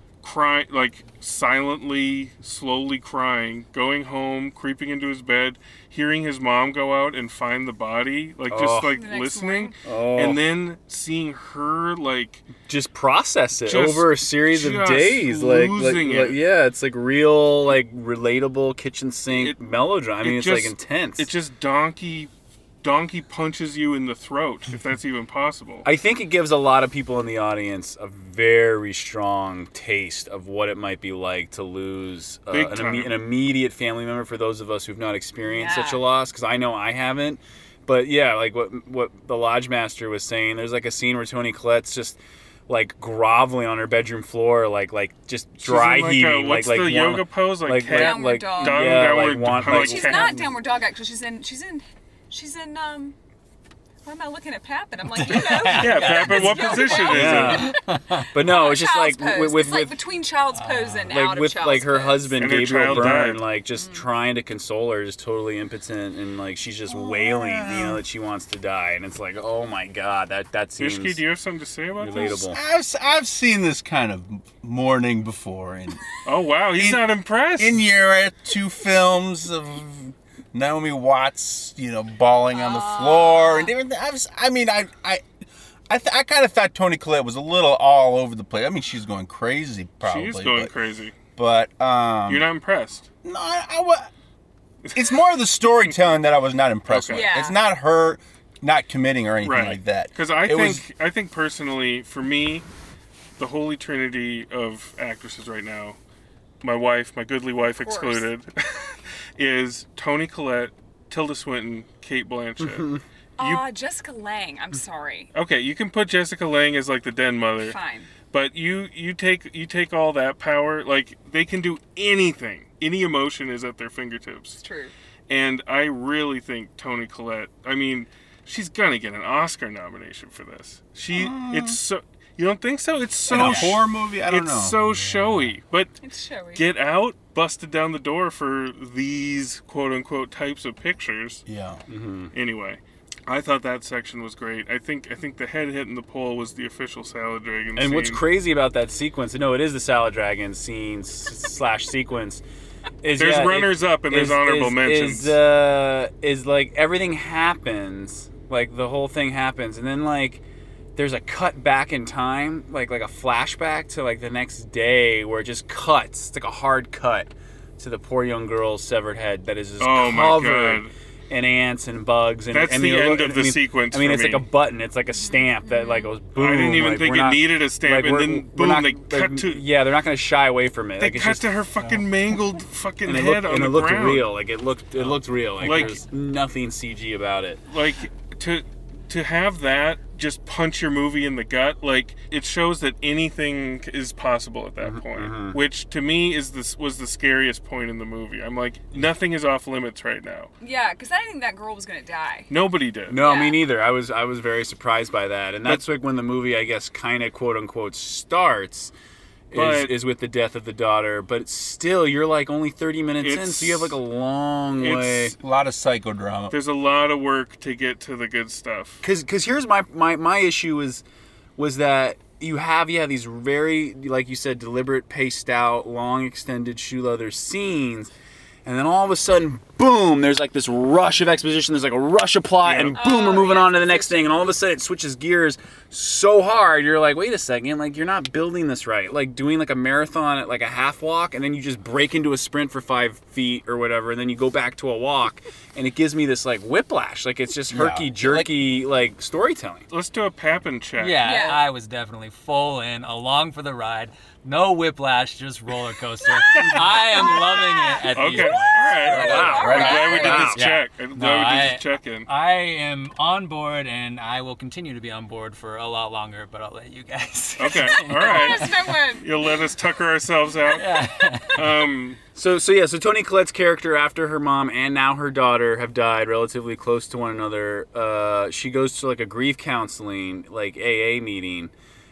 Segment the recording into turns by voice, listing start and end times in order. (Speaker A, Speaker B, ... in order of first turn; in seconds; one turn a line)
Speaker A: 0.2-12.5
Speaker B: 8.5-9.0
Speaker C: 8.9-9.8
Speaker B: 9.8-10.4
Speaker B: 12.6-21.3
Speaker A: 13.7-16.4
Speaker A: 19.3-19.6
Speaker A: 20.2-22.3
Speaker A: 22.8-25.9
Speaker B: 25.8-50.5
Speaker A: 32.5-33.2
Speaker C: 35.4-36.0
Speaker A: 45.6-50.5
Speaker C: 47.9-53.2
Speaker C: 54.0-57.8
Speaker D: 55.1-58.3
Speaker A: 55.7-57.7
Speaker B: 57.0-57.7
Speaker B: 58.3-60.0
Speaker C: 58.4-63.2
Speaker D: 60.5-61.1
Speaker B: 61.1-71.2
Speaker A: 62.4-63.5
Speaker C: 63.7-64.1
Speaker E: 67.2-68.0
Speaker A: 70.8-72.4
Speaker B: 72.0-72.6
Speaker E: 72.3-76.0
Speaker A: 76.2-77.8
Speaker E: 76.8-85.3
Speaker C: 82.5-83.7
Speaker E: 85.9-90.7
Speaker A: 90.0-91.1
Speaker E: 91.4-92.5
Speaker A: 92.3-93.1
Speaker E: 93.2-94.1
Speaker E: 94.9-100.8
Speaker A: 96.9-97.2
Speaker C: 97.1-97.5
Speaker A: 99.4-102.7
Speaker A: 103.4-106.0
Speaker A: 106.6-112.9
Speaker C: 107.6-108.3
Speaker B: 112.6-113.0
Speaker C: 113.4-115.3
Speaker A: 113.4-113.7
Speaker A: 115.3-117.8
Speaker C: 117.6-118.1
Speaker A: 118.3-124.6
Speaker C: 124.6-124.9
Speaker A: 125.3-136.0
Speaker E: 131.1-131.8
Speaker E: 133.3-134.8
Speaker D: 134.8-135.6
Speaker C: 136.0-136.7
Speaker A: 136.5-141.4
Speaker E: 141.5-141.8
Speaker B: 141.9-142.3
Speaker A: 142.3-148.2
Speaker B: 147.8-152.4
Speaker B: 153.0-160.4
Speaker A: 153.2-155.4
Speaker B: 161.0-181.4
Speaker A: 169.8-170.9
Speaker A: 172.5-174.4
Speaker C: 175.2-176.1
Speaker A: 176.3-179.6
Speaker A: 181.0-184.3
Speaker B: 183.1-187.6
Speaker D: 185.0-186.1
Speaker A: 185.6-186.0
Speaker A: 187.7-200.5
Speaker B: 194.8-195.6
Speaker C: 200.6-202.5
Speaker A: 202.5-203.2
Speaker B: 203.1-208.9
Speaker C: 203.2-203.6
Speaker B: 209.5-215.3
Speaker A: 209.5-209.9
Speaker A: 213.2-214.0
Speaker A: 214.8-215.4
Speaker E: 215.4-216.6
Speaker A: 216.5-219.0
Speaker B: 219.0-221.0
Speaker B: 221.6-228.1
Speaker B: 228.7-249.8
Speaker A: 232.6-233.0
Speaker C: 233.0-234.6
Speaker E: 247.7-248.5
Speaker A: 249.9-251.5
Speaker D: 251.0-259.6
Speaker C: 251.2-251.7
Speaker C: 256.4-260.6
Speaker A: 258.1-262.3
Speaker B: 259.1-260.6
Speaker E: 259.2-260.6
Speaker D: 260.6-268.9
Speaker A: 267.6-268.7
Speaker C: 268.2-269.3
Speaker A: 269.2-271.0
Speaker D: 270.7-271.7
Speaker A: 271.5-272.2
Speaker B: 272.4-281.7